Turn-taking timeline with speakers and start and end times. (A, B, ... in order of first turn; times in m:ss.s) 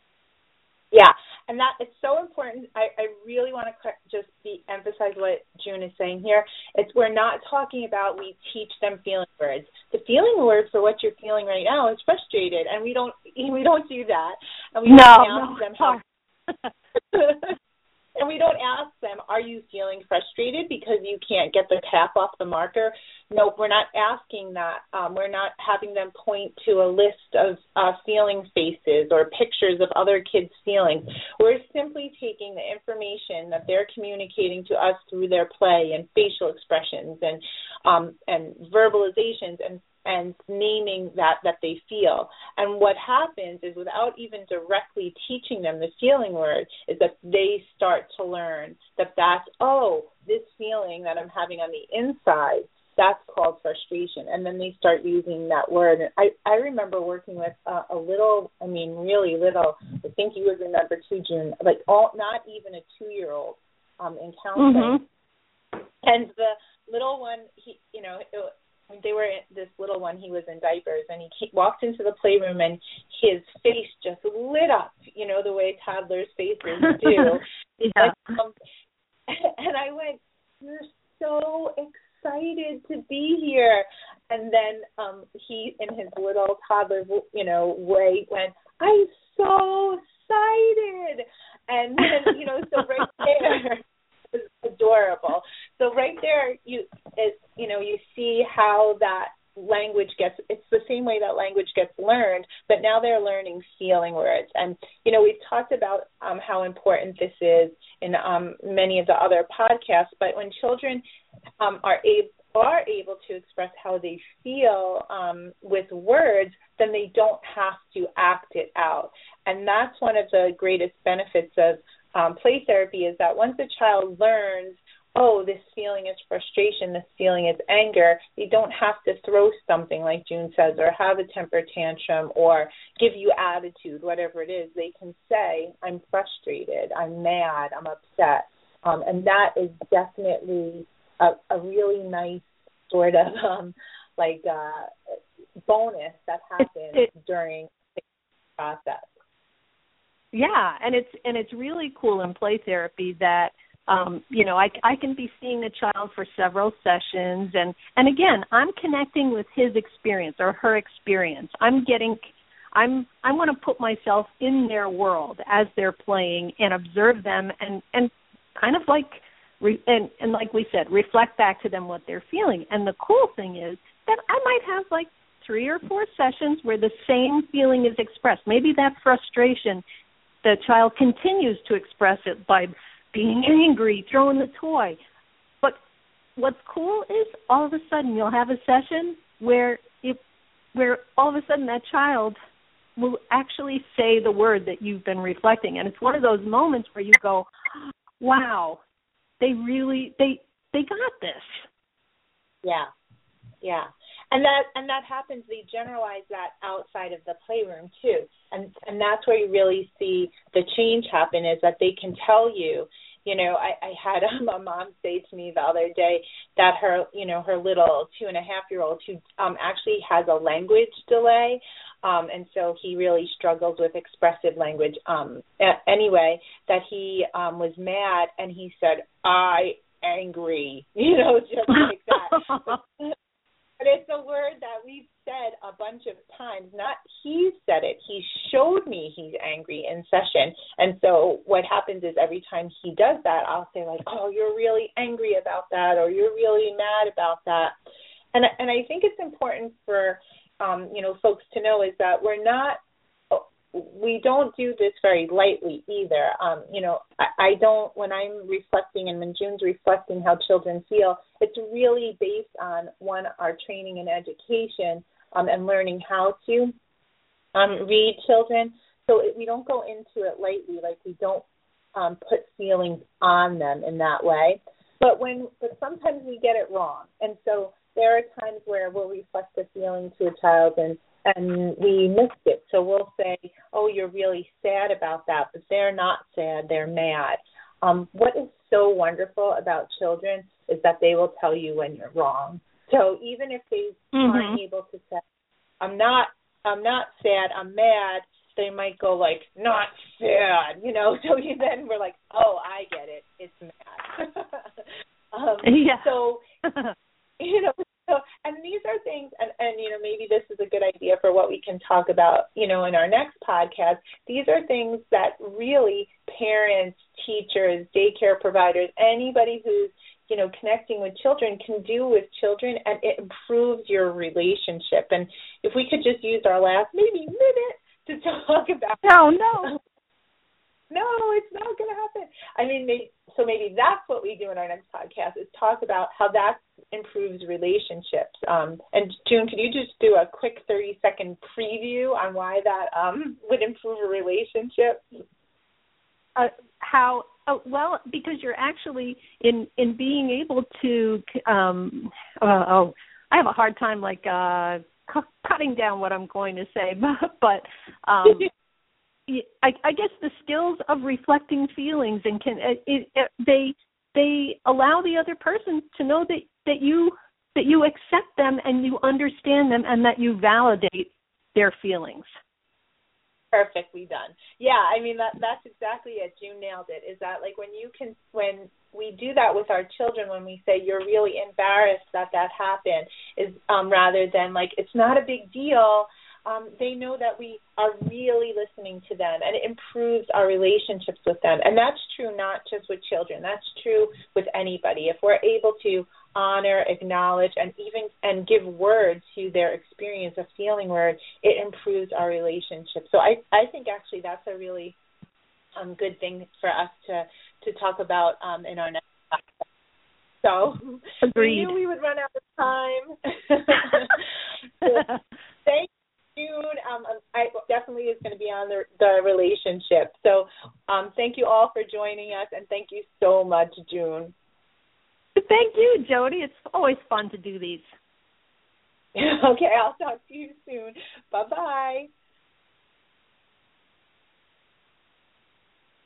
0:00.9-0:16.0 A
0:14.8-0:16.0 B
0:17.1-0:17.5 A
0:18.2-1:05.0 A
1:04.6-1:05.0 B
1:06.0-1:17.4 A
1:17.0-1:18.1 B
1:18.0-1:18.5 A
1:19.3-1:51.0 A
1:51.6-2:28.0 A
2:28.6-2:29.1 A
2:30.3-2:42.2 B
2:42.7-2:59.8 B
3:00.4-3:05.0 B
3:06.4-3:10.2 B
3:10.7-3:12.4 B
3:13.0-3:17.5 B
3:18.2-3:18.8 B
3:19.4-3:21.6 B
3:23.6-3:53.2 A
3:53.8-4:07.7 A
4:08.3-4:26.7 A
4:27.5-4:55.2 A
4:54.1-4:54.6 B
4:55.8-5:06.4 A
5:05.6-5:06.1 B
5:07.4-5:29.1 A
5:29.0-5:29.7 B
5:30.9-5:45.2 A
5:46.4-5:58.5 B
5:59.3-6:12.2 B
6:13.5-6:45.0 A
6:45.8-6:49.6 A
6:50.4-6:54.2 A
6:51.2-6:51.7 B
6:54.8-6:55.1 A
6:55.6-7:04.3 A
7:05.4-7:07.8 B
7:09.1-7:12.1 A